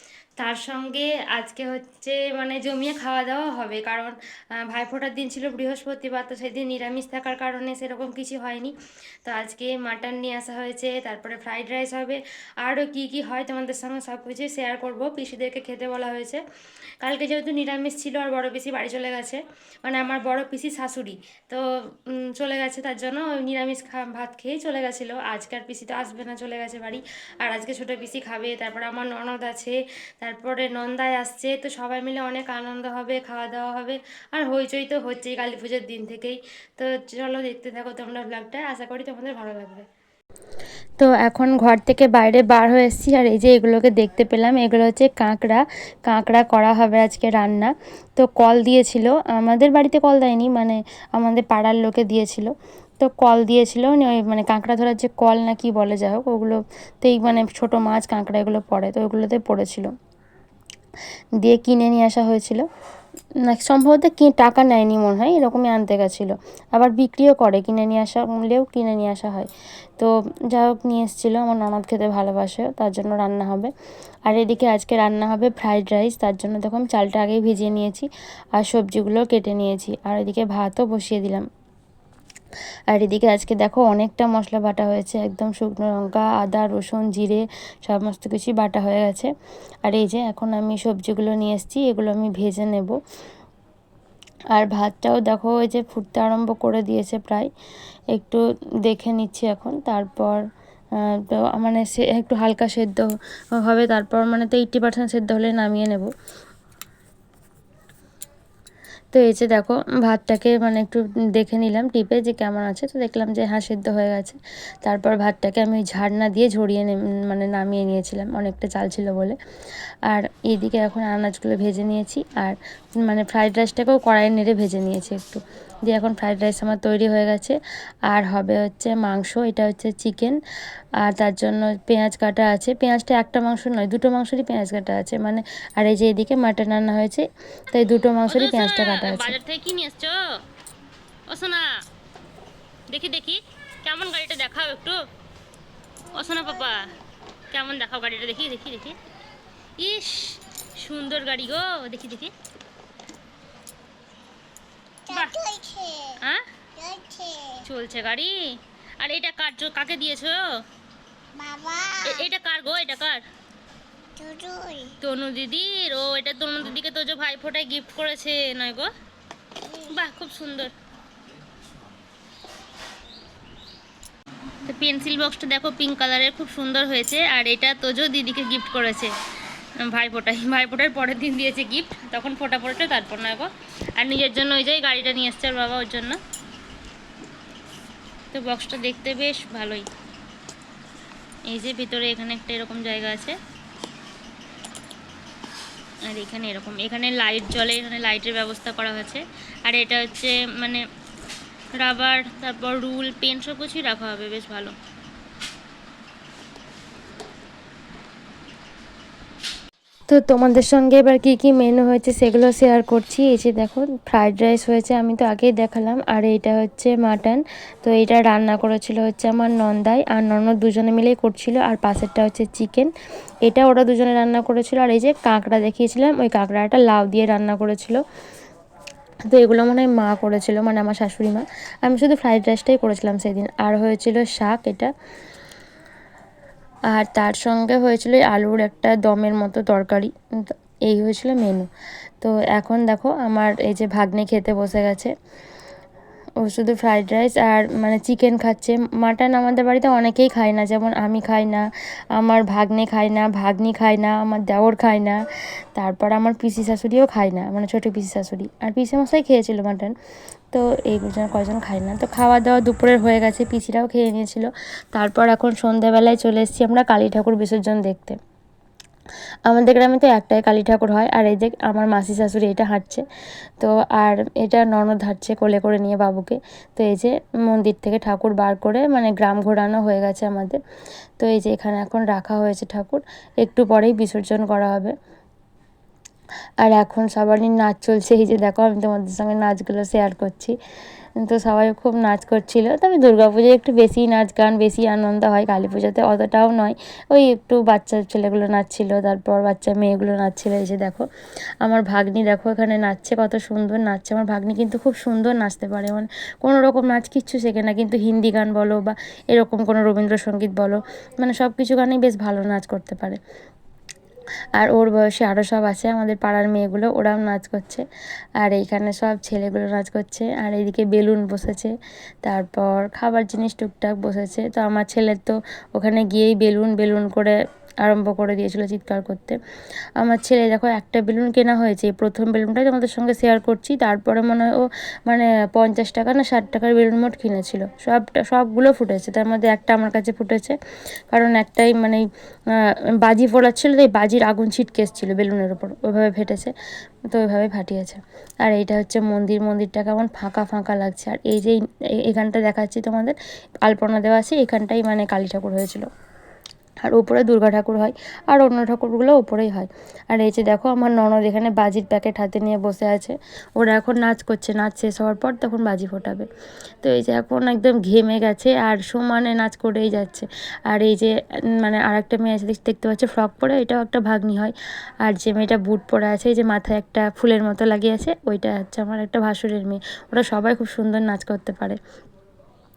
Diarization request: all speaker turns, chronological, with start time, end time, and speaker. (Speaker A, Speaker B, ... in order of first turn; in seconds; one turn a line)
Speaker A: 0.4-8.7
Speaker A: 9.2-16.4
Speaker A: 17.0-39.9
Speaker A: 41.0-59.9
Speaker A: 61.4-62.6
Speaker A: 63.4-73.7
Speaker A: 74.2-81.4
Speaker A: 82.9-89.3
Speaker A: 89.8-93.0
Speaker A: 94.5-97.5
Speaker A: 98.1-100.4
Speaker A: 101.0-106.1
Speaker A: 109.1-119.4
Speaker A: 120.1-127.6
Speaker A: 128.1-130.4
Speaker A: 131.0-139.3
Speaker B: 138.3-140.4
Speaker B: 141.3-141.8
Speaker B: 142.9-145.0
Speaker B: 146.1-146.9
Speaker B: 147.5-149.0
Speaker B: 149.8-152.3
Speaker C: 155.1-156.2
Speaker B: 155.1-155.4
Speaker C: 156.8-157.6
Speaker B: 157.6-160.5
Speaker C: 161.3-162.3
Speaker B: 162.0-163.2
Speaker C: 164.2-165.0
Speaker B: 165.0-168.9
Speaker B: 169.9-170.7
Speaker B: 174.7-179.1
Speaker B: 179.8-186.2
Speaker B: 188.3-189.8
Speaker A: 191.5-193.3
Speaker B: 192.4-193.3
Speaker A: 196.1-200.8
Speaker B: 196.9-197.9
Speaker B: 198.8-199.2
Speaker B: 199.8-200.7
Speaker B: 201.8-204.7
Speaker A: 202.1-203.4
Speaker A: 204.1-204.7
Speaker A: 210.1-222.9
Speaker A: 223.4-228.0
Speaker A: 229.3-234.9
Speaker A: 236.9-241.7
Speaker A: 242.2-245.1
Speaker A: 246.4-255.2
Speaker A: 255.7-259.9
Speaker A: 260.5-268.2
Speaker A: 269.5-273.0
Speaker A: 273.6-280.6
Speaker A: 281.2-284.9
Speaker A: 286.6-290.5
Speaker A: 291.2-301.1
Speaker A: 301.6-313.2
Speaker A: 314.6-317.8
Speaker A: 318.4-329.4
Speaker A: 330.0-340.6
Speaker A: 341.1-346.5
Speaker A: 347.1-355.9
Speaker A: 356.8-366.3
Speaker A: 366.8-381.8